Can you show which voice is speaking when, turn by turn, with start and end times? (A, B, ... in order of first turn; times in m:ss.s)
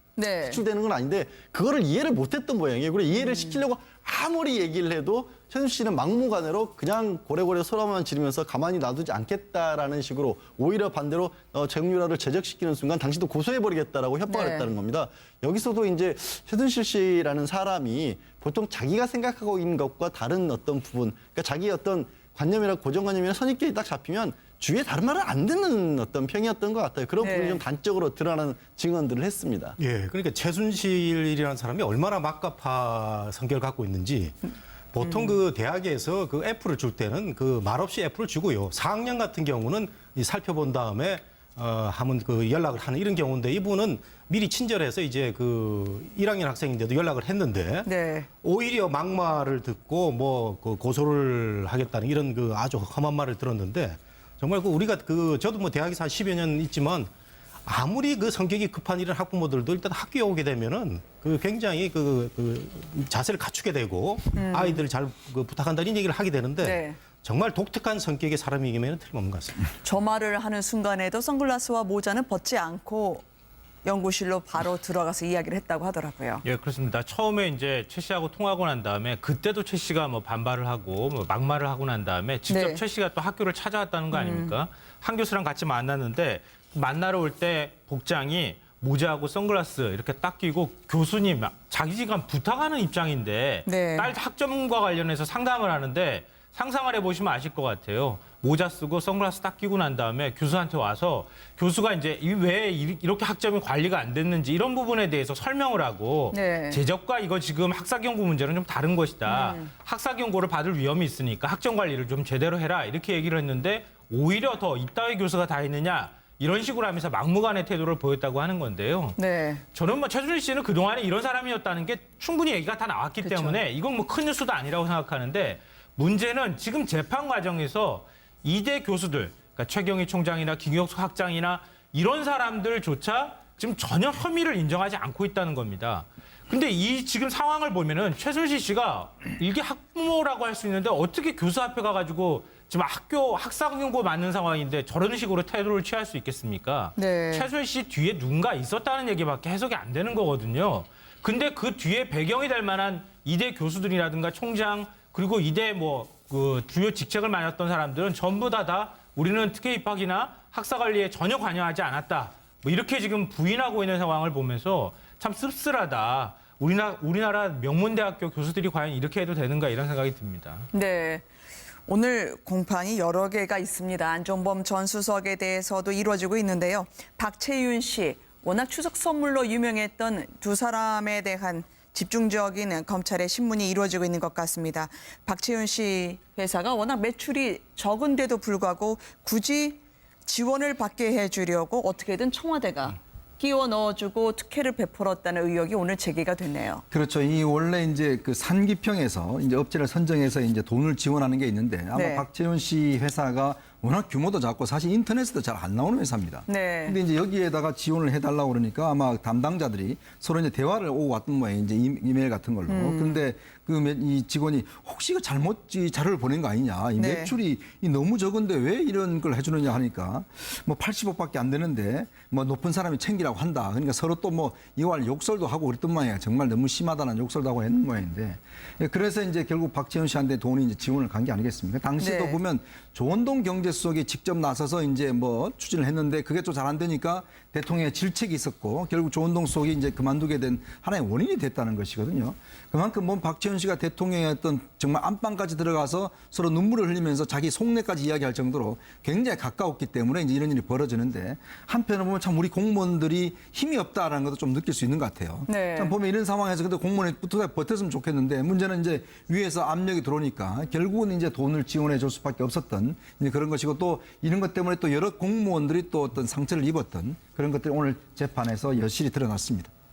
0:00.2-0:00.6 A
0:00.4-0:29.8 B
0:03.1-0:03.6 A
0:14.3-0:14.7 A
0:27.2-0:27.6 A
0:29.8-0:47.9 C
0:35.0-0:35.4 A
0:47.8-0:48.3 A
0:48.4-0:57.1 C
0:57.6-1:09.6 C
1:04.3-1:04.8 A
1:06.6-1:07.0 A
1:09.8-1:13.2 A
1:13.8-1:16.4 A
1:16.4-1:59.2 D
1:22.5-1:22.8 A
1:24.1-1:24.5 A
1:33.6-1:34.1 A
1:46.3-1:46.8 A
1:49.3-1:49.7 A
1:59.2-1:59.6 A
1:59.7-2:50.7 D
2:03.2-2:03.6 A
2:27.0-2:27.5 A
2:50.7-2:51.2 A
2:51.9-3:16.8 A
3:16.9-4:29.7 E
3:21.9-3:22.2 A
3:26.5-3:27.0 A
3:32.7-3:33.2 A
3:37.0-3:37.4 A
3:52.0-3:52.4 A
4:15.5-4:15.9 A